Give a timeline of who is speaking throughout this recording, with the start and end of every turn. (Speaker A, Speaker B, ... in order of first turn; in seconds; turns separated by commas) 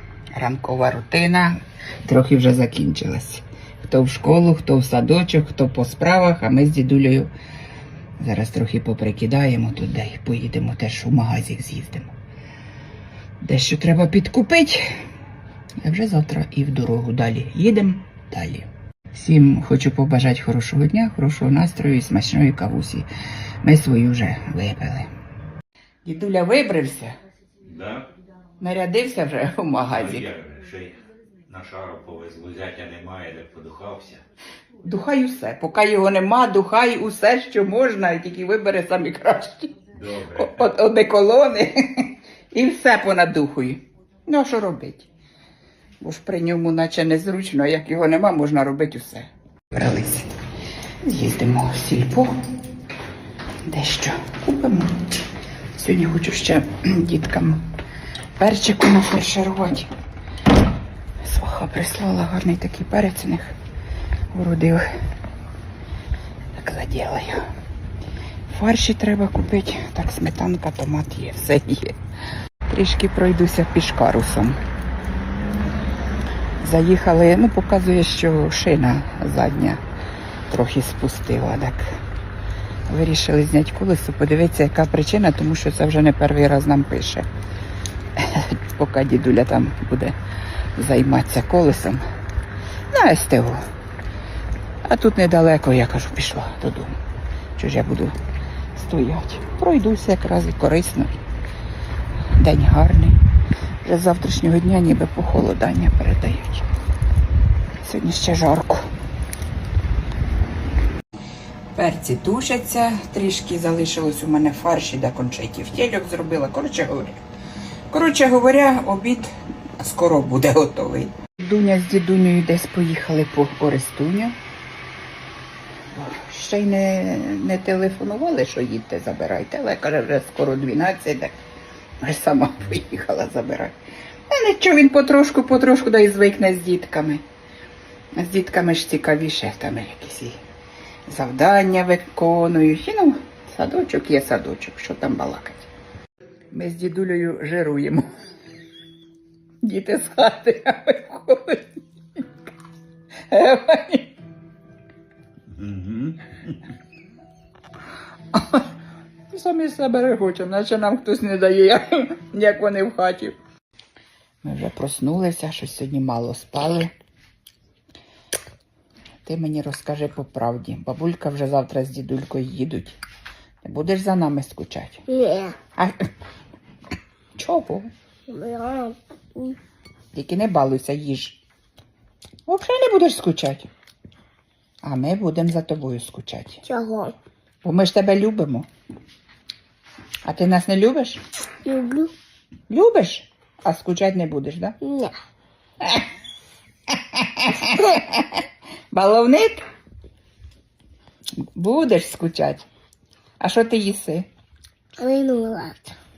Speaker A: 0.3-7.3, Speaker A: 8.2-12.1, Speaker A: 13.4-15.0, Speaker A: 15.8-23.1, Speaker A: 23.6-25.1, Speaker A: 26.1-27.1, Speaker B: 27.6-28.1, Speaker A: 28.6-30.3, Speaker B: 29.9-34.2, Speaker A: 34.8-45.1, Speaker B: 39.9-40.7, Speaker A: 46.0-50.3, Speaker A: 51.0-52.4, Speaker A: 53.7-55.0, Speaker A: 55.8-57.7, Speaker A: 58.4-59.9, Speaker A: 61.2-63.6, Speaker A: 64.3-64.9, Speaker A: 66.6-67.5, Speaker A: 68.5-72.0, Speaker A: 72.7-74.6, Speaker A: 76.6-79.8, Speaker A: 80.5-81.9, Speaker A: 82.9-87.3, Speaker A: 88.2-90.2, Speaker A: 90.8-92.0, Speaker A: 92.9-93.6, Speaker A: 94.8-97.0, Speaker A: 97.6-98.2, Speaker A: 98.8-101.2, Speaker A: 102.4-103.2, Speaker A: 103.8-106.7, Speaker A: 107.8-108.9, Speaker A: 111.8-117.2, Speaker A: 117.9-124.4, Speaker A: 125.9-131.4, Speaker A: 132.0-133.8, Speaker A: 134.3-137.2, Speaker A: 138.2-140.4, Speaker A: 141.1-145.7, Speaker A: 146.5-148.1, Speaker A: 149.6-152.3, Speaker A: 153.3-154.2, Speaker B: 155.5-156.2, Speaker A: 158.3-158.7, Speaker A: 159.3-163.4, Speaker A: 164.4-166.9, Speaker A: 169.2-173.0, Speaker A: 173.6-175.1, Speaker C: 175.1-175.6, Speaker A: 175.8-176.0, Speaker A: 177.4-177.9, Speaker C: 178.3-179.6, Speaker A: 180.1-181.4, Speaker A: 182.5-183.7, Speaker A: 184.8-186.6, Speaker C: 186.7-187.2, Speaker A: 187.6-188.7, Speaker A: 190.2-191.2, Speaker C: 191.6-192.1, Speaker A: 192.7-194.8, Speaker C: 194.8-195.2, Speaker A: 195.8-196.1, Speaker A: 196.9-199.7, Speaker A: 201.4-202.7, Speaker A: 203.4-204.3, Speaker C: 205.0-206.0